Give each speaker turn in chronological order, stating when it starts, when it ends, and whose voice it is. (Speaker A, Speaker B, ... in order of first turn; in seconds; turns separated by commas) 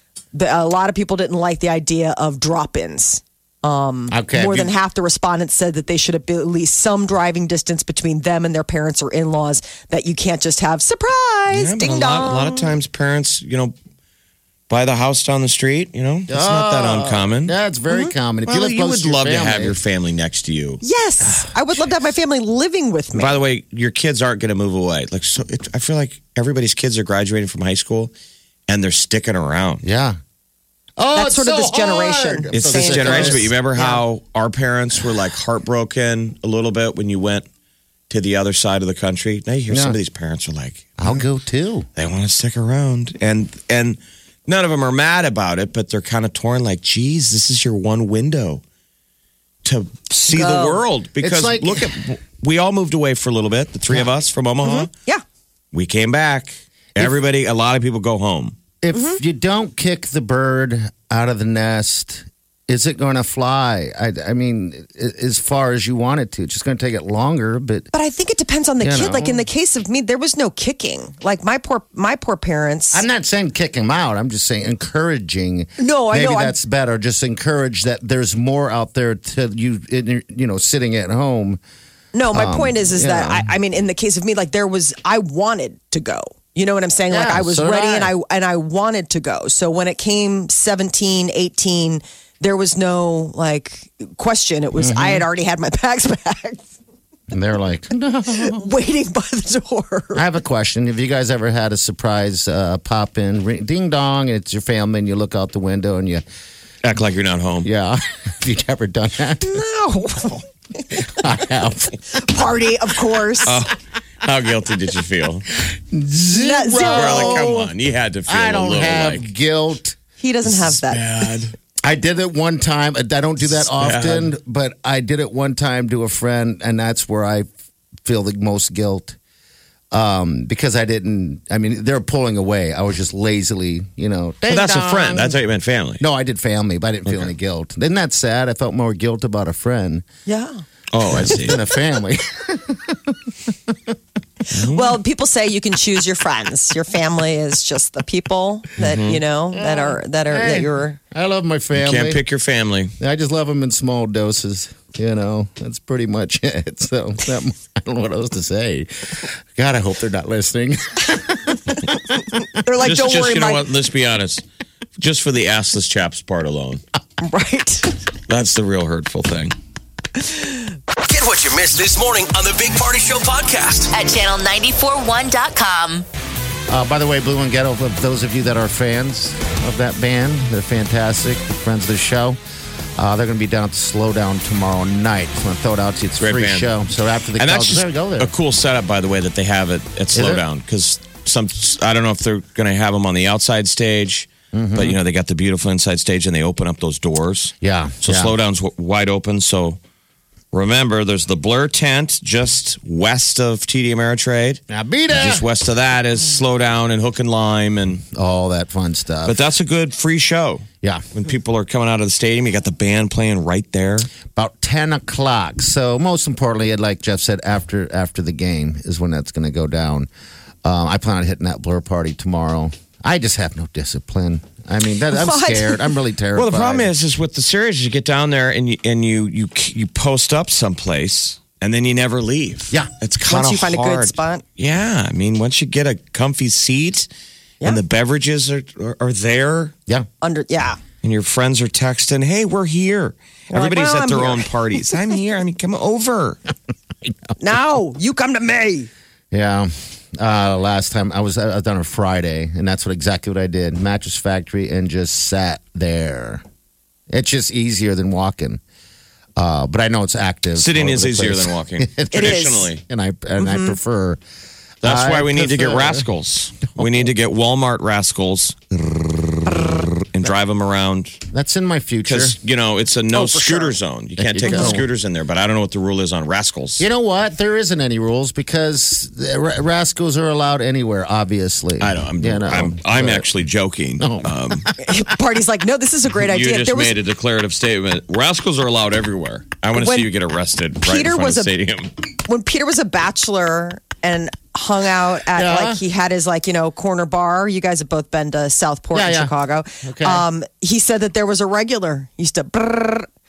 Speaker A: 0.3-12.7, Speaker B: 4.1-4.7, Speaker C: 11.5-13.7, Speaker C: 14.7-17.6, Speaker B: 16.3-19.8, Speaker C: 18.5-20.8, Speaker A: 20.8-23.3, Speaker C: 23.1-28.1, Speaker C: 28.7-29.8, Speaker B: 29.8-30.2, Speaker B: 31.0-33.9, Speaker A: 31.1-34.0, Speaker C: 32.5-37.5, Speaker C: 38.1-41.2, Speaker B: 39.7-40.0, Speaker B: 41.0-41.9, Speaker C: 42.0-48.6, Speaker C: 49.6-54.9, Speaker A: 50.3-50.8, Speaker B: 51.2-51.9, Speaker A: 54.6-55.2, Speaker C: 55.7-58.6, Speaker B: 58.8-67.9, Speaker A: 58.9-59.2, Speaker A: 67.9-73.0, Speaker B: 68.8-69.5, Speaker B: 72.9-81.6, Speaker A: 75.8-76.6, Speaker A: 82.1-96.7, Speaker B: 82.3-83.5, Speaker B: 87.1-88.1, Speaker B: 94.8-95.3, Speaker B: 97.3-98.7, Speaker A: 98.3-100.2, Speaker B: 100.2-106.2, Speaker C: 106.8-107.7, Speaker B: 107.6-109.6, Speaker A: 109.4-110.5, Speaker B: 110.9-112.2, Speaker A: 112.1-113.6, Speaker C: 113.4-115.5, Speaker B: 115.9-117.7, Speaker A: 116.3-117.4, Speaker C: 116.8-119.3, Speaker B: 118.3-120.0, Speaker A: 120.2-121.0, Speaker C: 120.7-121.5, Speaker B: 121.8-127.5, Speaker C: 123.6-124.3, Speaker B: 128.0-129.2, Speaker B: 129.9-135.4, Speaker C: 134.5-136.0, Speaker B: 136.0-140.1, Speaker A: 140.3-140.6, Speaker C: 140.9-141.6, Speaker B: 141.1-143.9, Speaker C: 144.5-145.0, Speaker A: 144.7-151.0, Speaker C: 148.8-149.2, Speaker B: 149.5-152.2, Speaker C: 151.8-152.9, Speaker B: 153.0-162.2, Speaker A: 162.6-163.7, Speaker C: 162.8-164.4, Speaker C: 165.0-166.8, Speaker A: 167.2-167.9, Speaker C: 168.3-169.6, Speaker D: 171.0-173.9, Speaker E: 173.9-176.1, Speaker B: 176.7-182.4, Speaker B: 183.0-188.3, Speaker C: 186.2-186.7, Speaker C: 187.4-199.8, Speaker B: 190.1-190.4, Speaker B: 194.5-195.0, Speaker B: 197.6-198.3, Speaker C: 200.5-208.0, Speaker B: 204.7-205.5, Speaker B: 208.1-209.4, Speaker C: 209.2-214.1, Speaker B: 214.3-220.1, Speaker B: 220.6-226.9, Speaker A: 225.1-225.9, Speaker C: 226.3-237.1, Speaker A: 233.2-234.4, Speaker C: 237.6-239.7, Speaker A: 240.2-240.8, Speaker C: 241.0-246.4, Speaker A: 243.5-244.5, Speaker A: 247.4-248.9, Speaker B: 249.3-256.4, Speaker B: 257.1-258.6, Speaker B: 259.4-264.2, Speaker C: 260.6-262.8, Speaker A: 262.1-262.7, Speaker A: 263.4-263.8, Speaker B: 264.8-266.1, Speaker C: 264.8-271.2, Speaker B: 266.8-267.1, Speaker B: 271.3-272.4, Speaker C: 272.1-276.9, Speaker A: 273.2-273.7, Speaker B: 274.2-274.9, Speaker A: 274.5-274.8, Speaker B: 276.8-283.3, Speaker C: 281.8-284.7, Speaker B: 284.0-284.7, Speaker A: 284.8-287.0, Speaker C: 286.2-291.9, Speaker A: 289.8-290.1, Speaker A: 290.8-291.5, Speaker A: 292.3-303.1, Speaker B: 295.3-295.8, Speaker B: 298.9-300.2